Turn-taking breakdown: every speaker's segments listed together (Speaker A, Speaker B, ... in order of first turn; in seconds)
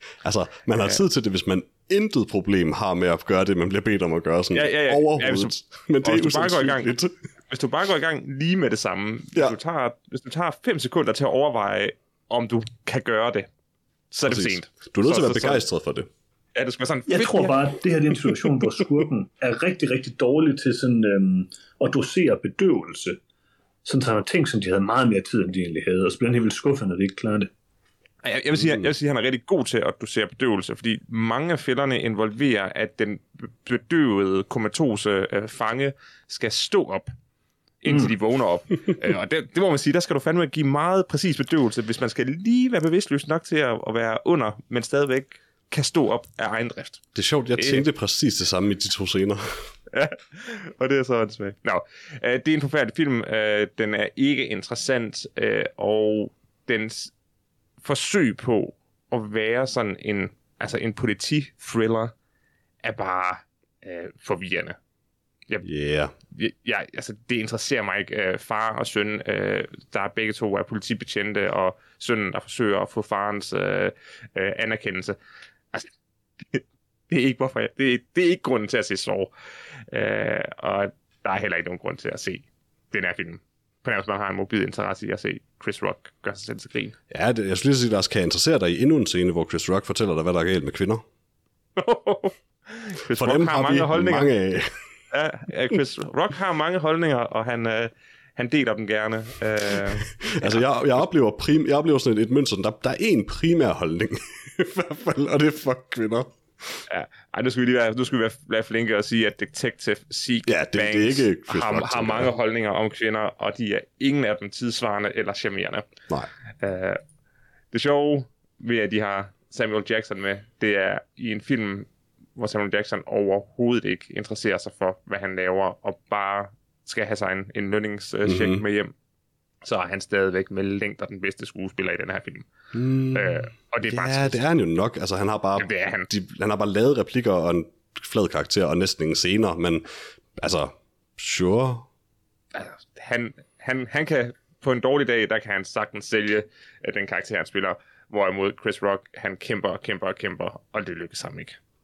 Speaker A: 0.2-7.1, 14.2-16.1, 47.1-49.4, 65.6-66.1, 87.1-91.0, 93.1-94.7, 100.2-106.8, 110.5-112.3, 128.2-128.6, 132.7-139.9, 140.4-141.9
Speaker B: 4.5-6.9, 7.5-13.5, 14.1-15.6, 16.6-17.7, 28.2-37.1, 37.8-47.0, 47.6-47.8, 49.9-57.1, 57.8-62.1, 62.8-64.8, 66.3-75.2, 76.5-79.3, 79.9-87.0, 91.8-94.3, 95.1-100.7, 106.9-115.9, 116.6-117.0, 117.7-128.9, 129.6-132.5, 133.1-134.4, 135.6-136.1, 142.5-151.6
Speaker C: 17.1-23.2, 23.9-27.5